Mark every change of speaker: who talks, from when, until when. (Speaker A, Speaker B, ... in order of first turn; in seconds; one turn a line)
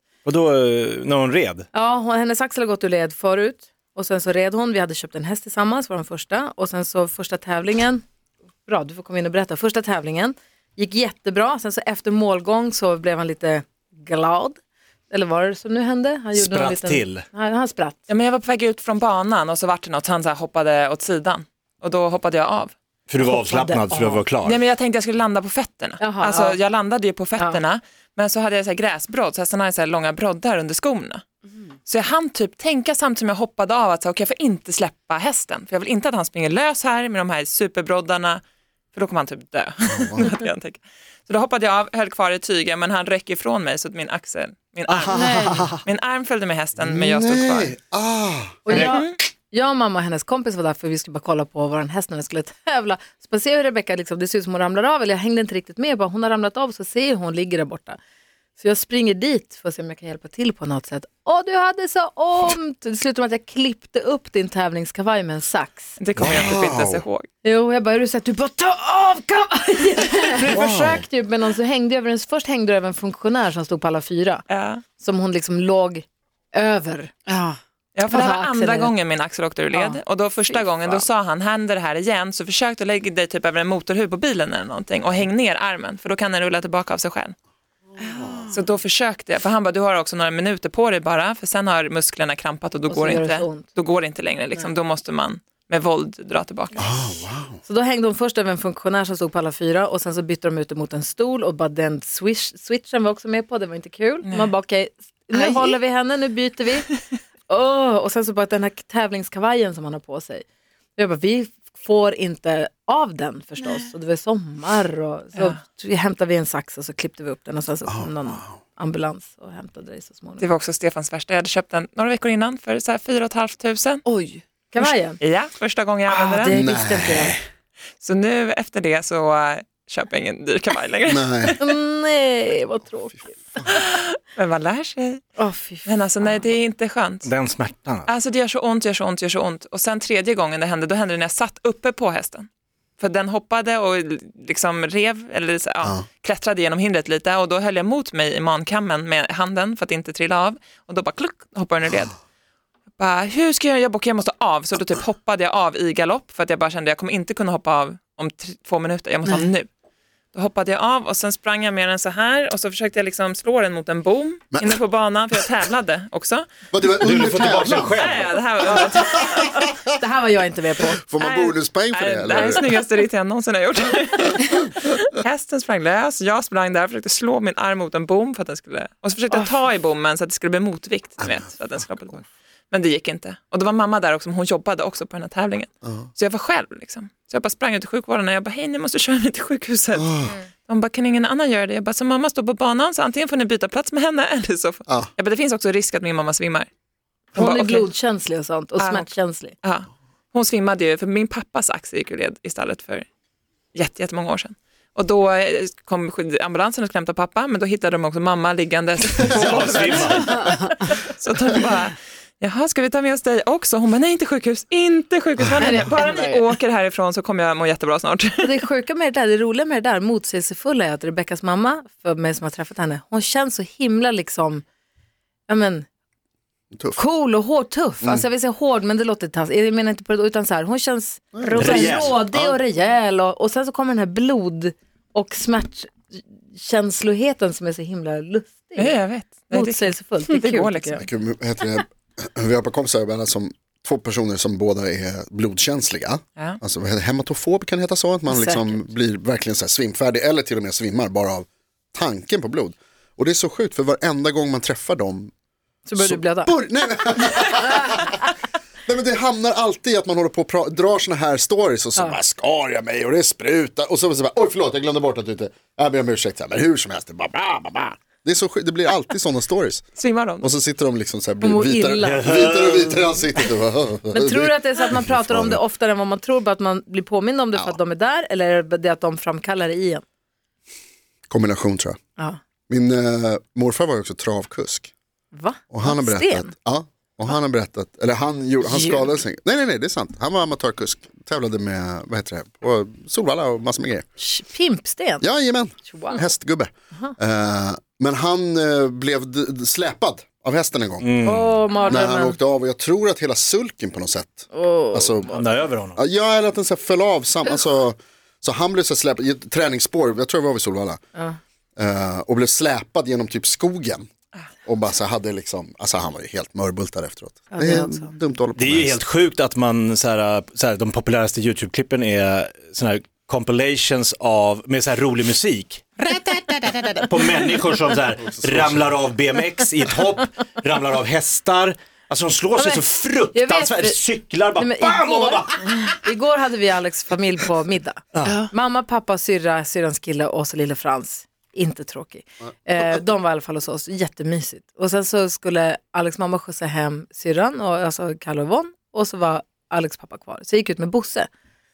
Speaker A: 0.2-1.6
Speaker B: 1.7-8.0
Speaker B: 8.7-14.6
Speaker B: 15.1-18.0
Speaker A: 16.3-17.2
Speaker C: 18.1-22.7
Speaker A: 23.1-24.6
Speaker B: 23.2-24.2
Speaker C: 24.4-31.2
Speaker B: 26.0-26.6
Speaker C: 31.9-38.4
Speaker C: 38.9-45.3
Speaker D: 39.9-40.4
Speaker A: 44.9-45.8
Speaker E: 45.1-45.7
Speaker C: 45.8-47.8
Speaker D: 46.8-48.6
Speaker B: 48.6-58.0
Speaker A: 48.7-49.0
Speaker C: 48.7-49.2
Speaker B: 58.6-65.9
Speaker C: 66.0-67.3
Speaker D: 66.2-67.0
Speaker B: 67.4-74.4
Speaker D: 70.5-71.0
Speaker C: 74.5-74.8
Speaker B: 75.0-77.1
Speaker E: 77.3-77.6
Speaker C: 77.9-87.3
Speaker B: 78.1-78.9
Speaker D: 87.9-88.5
Speaker E: 88.0-88.5
Speaker C: 88.5-96.9
Speaker B: 92.9-93.7
Speaker D: 96.8-97.6
Speaker B: 97.6-106.9
Speaker C: 105.3-105.8
Speaker B: 107.5-110.4
Speaker B: 111.0-120.5
Speaker D: 117.8-118.6
Speaker C: 120.4-124.0
Speaker E: 124.0-124.4
Speaker B: 124.7-125.2
Speaker C: 124.8-126.5
Speaker B: 126.4-127.4
Speaker D: 126.5-127.4
Speaker C: 128.0-131.6
Speaker D: 131.1-131.6
Speaker B: 131.6-133.6
Speaker C: 133.7-135.2
Speaker B: 135.4-135.9
Speaker C: 135.8-137.3
Speaker A: 137.2-138.1
Speaker C: 138.1-142.5
Speaker C: 143.0-152.2
Speaker C: 153.0-159.7
Speaker C: 160.3-166.5
Speaker D: 164.5-164.8
Speaker D: 166.7-168.0
Speaker A: 167.0-168.3
Speaker C: 168.0-169.7
Speaker B: 169.9-171.0
Speaker D: 170.9-172.6
Speaker C: 171.2-196.7
Speaker D: 185.8-186.1
Speaker D: 189.9-190.3
Speaker C: 197.3-197.9
Speaker B: 197.3-199.5
Speaker C: 198.8-199.1
Speaker C: 199.6-203.1
Speaker C: 203.7-218.5
Speaker A: 209.2-210.4
Speaker B: 210.3-210.6
Speaker D: 215.4-215.7
Speaker E: 215.6-216.4
Speaker B: 218.4-224.6
Speaker B: 225.5-225.8
Speaker D: 226.7-227.0
Speaker B: 226.9-241.0
Speaker D: 231.3-232.6
Speaker A: 231.5-232.1
Speaker C: 238.8-241.1
Speaker D: 241.0-255.3
Speaker B: 248.3-248.8
Speaker B: 255.8-256.5
Speaker D: 256.0-258.2
Speaker D: 258.9-269.9
Speaker C: 270.0-270.5
Speaker D: 270.4-275.6
Speaker B: 271.4-272.2
Speaker A: 272.1-273.1
Speaker B: 274.1-280.0
Speaker D: 281.3-282.0
Speaker D: 282.7-284.9
Speaker B: 285.3-286.5
Speaker D: 285.7-294.1
Speaker B: 288.7-289.0
Speaker B: 294.2-295.2
Speaker D: 295.2-301.1
Speaker A: 301.0-301.6
Speaker B: 301.2-302.4
Speaker D: 301.8-305.4
Speaker E: 304.6-304.9
Speaker A: 305.3-306.0
Speaker D: 306.0-311.0
Speaker D: 311.8-314.1
Speaker D: 314.6-319.0
Speaker B: 317.5-318.1
Speaker A: 318.6-336.0
Speaker D: 328.2-329.0
Speaker B: 332.6-334.0
Speaker B: 334.5-351.3
Speaker A: 338.1-338.4